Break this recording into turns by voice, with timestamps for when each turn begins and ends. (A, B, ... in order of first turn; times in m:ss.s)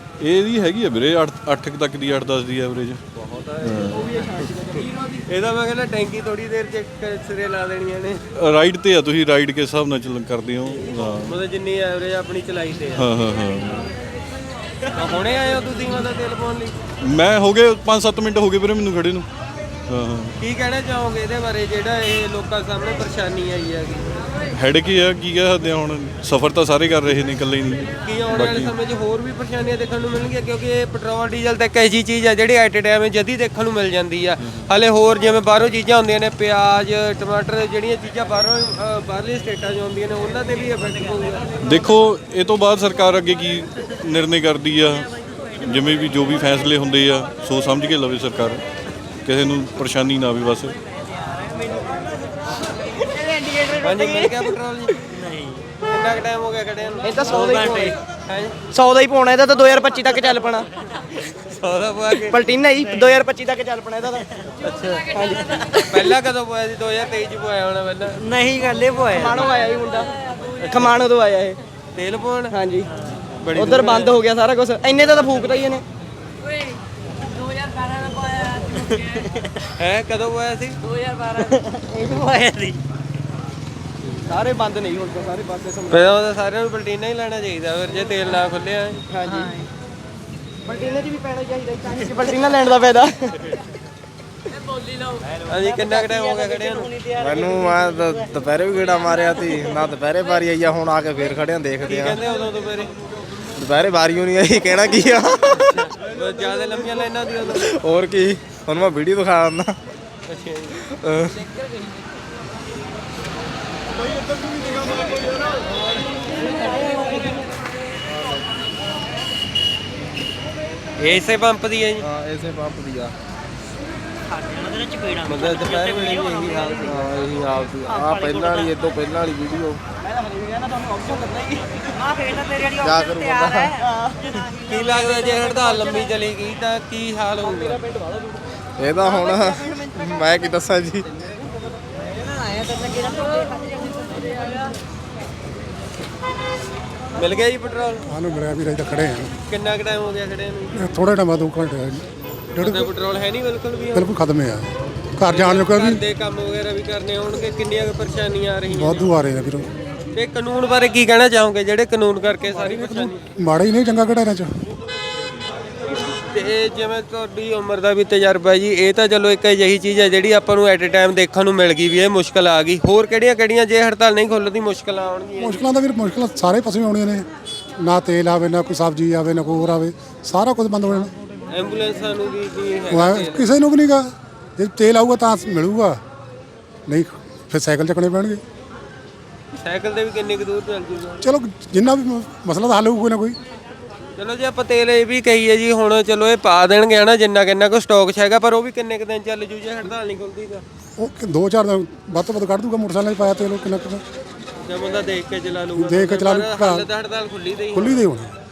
0:00.2-0:03.0 A
0:03.2-0:08.2 B
0:03.6-0:04.1 A
0:08.4-0:11.4 A
0:11.2-0:13.1 B
0:13.0-0:13.9 A
0:14.9-0:16.7 B
0:17.0-0:19.2 A
0:19.9-0:20.3 A
0:20.4-0:24.1 B
0:24.6-0:28.7 A
0:28.0-0:41.4 B
0:34.4-0:34.7 A
0:41.6-0:45.1 A
0:45.6-0:48.6 A
0:49.2-0:50.8 A
0:53.7-0:54.9 B
0:55.9-0:58.6 B
0:57.1-0:57.9 C
0:58.7-1:00.6 C
1:01.3-1:02.4 B
1:02.4-1:04.2 C
1:04.6-1:05.1 B
1:05.8-1:08.2 B
1:09.2-1:10.0 C
1:10.6-1:10.9 B
1:10.8-1:11.5 C
1:11.9-1:12.6 B
1:13.4-1:14.2 B
1:13.6-1:15.8 C
1:19.8-1:20.8 B
1:24.3-1:25.9 C
1:25.9-1:29.0 B
1:29.2-1:29.4 C
1:30.7-1:33.2 C
1:35.4-1:36.9 B
1:37.2-1:42.2 D
1:41.8-1:42.9 B
1:43.6-1:45.8 D
1:45.6-1:47.7 B
1:47.6-1:49.7 D
1:50.3-1:50.8 B
1:50.9-1:51.4 D
2:01.0-2:02.0 B
2:02.0-2:03.1 D
2:05.2-2:07.8 B
2:06.8-2:09.8 D
2:12.6-2:13.8 D
2:14.6-2:17.8 B
2:18.8-2:21.1 D
2:27.2-2:28.0 B
2:28.1-2:29.3 E
2:29.5-2:30.8 B
2:30.8-2:32.9 E
2:32.6-2:34.1 B
2:33.9-2:36.0 E
2:35.2-2:39.1 B
2:38.7-2:39.7 E
2:40.1-2:43.2 B
2:42.6-2:44.5 E
2:46.0-2:55.6 B
2:55.4-2:57.2 E
2:57.8-3:01.1 E
3:01.5-3:03.5 B
3:02.9-3:04.0 E
3:04.6-3:06.0 E
3:06.9-3:08.4 E
3:09.6-3:11.2 B
3:11.2-3:13.4 E
3:14.2-3:20.6 B
3:21.0-3:24.0 E
3:24.6-3:28.0 B
3:25.8-3:26.9 E
3:27.7-3:28.3 E